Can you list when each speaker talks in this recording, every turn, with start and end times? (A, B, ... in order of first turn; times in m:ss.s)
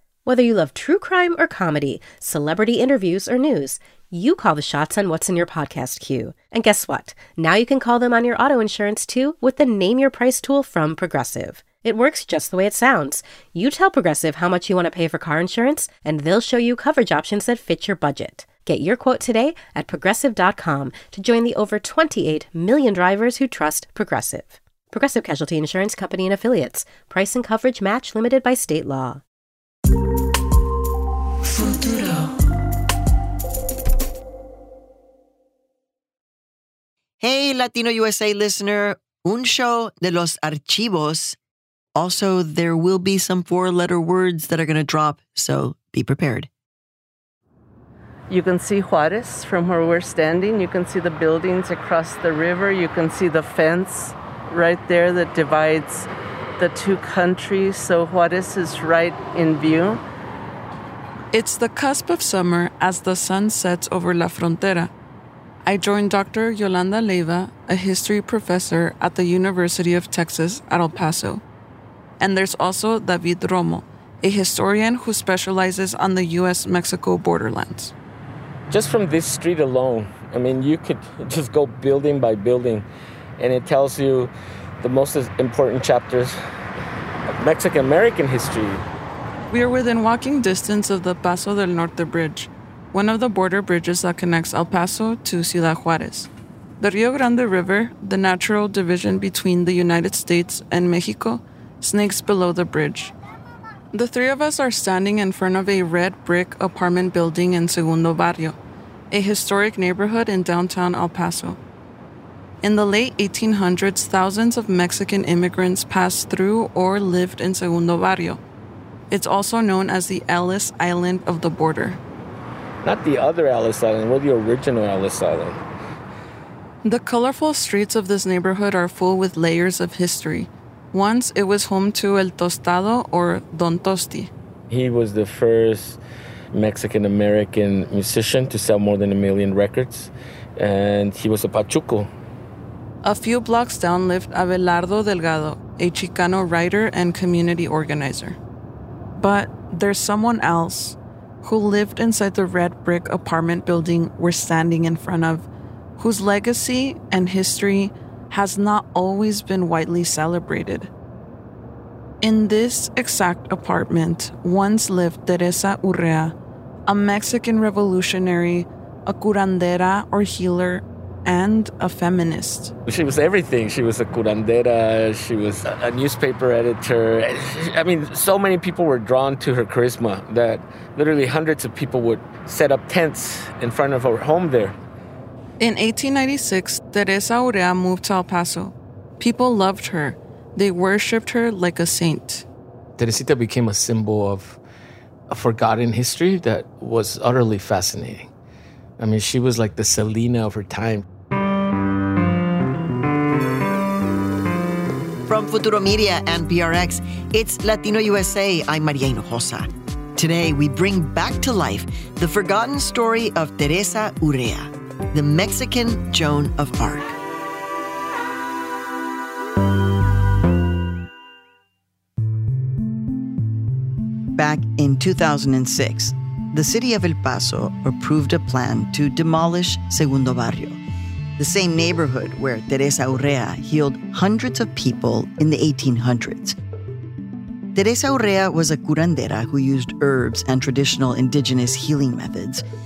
0:00.2-0:29.2 A
0:37.2-0:41.4 B
0:41.9-0:46.5 B
0:48.3-1:00.0 C
1:01.3-1:04.9 D
1:05.6-1:11.4 D
1:12.2-1:17.9 D
1:18.7-1:22.8 E
1:23.4-1:26.3 E
1:27.4-1:28.8 E
1:29.5-1:36.3 D
1:36.8-1:43.1 D
1:43.9-1:48.6 D
1:49.1-1:51.6 D
1:52.6-1:58.4 D
1:59.1-2:02.0 D
2:02.8-2:05.6 E
2:06.8-2:14.3 D
2:14.7-2:16.0 E
2:16.5-2:22.1 E
2:23.0-2:28.4 D
2:29.2-2:35.5 D
2:36.0-2:40.9 D
2:42.2-2:52.7 D
2:52.9-3:04.8 E
3:05.6-3:12.4 D
3:13.0-3:14.6 E
3:15.3-3:18.3 E
3:19.0-3:21.0 E
3:25.3-3:37.2 B
3:44.3-3:50.8 B
3:51.4-3:56.6 B
3:57.7-4:02.6 B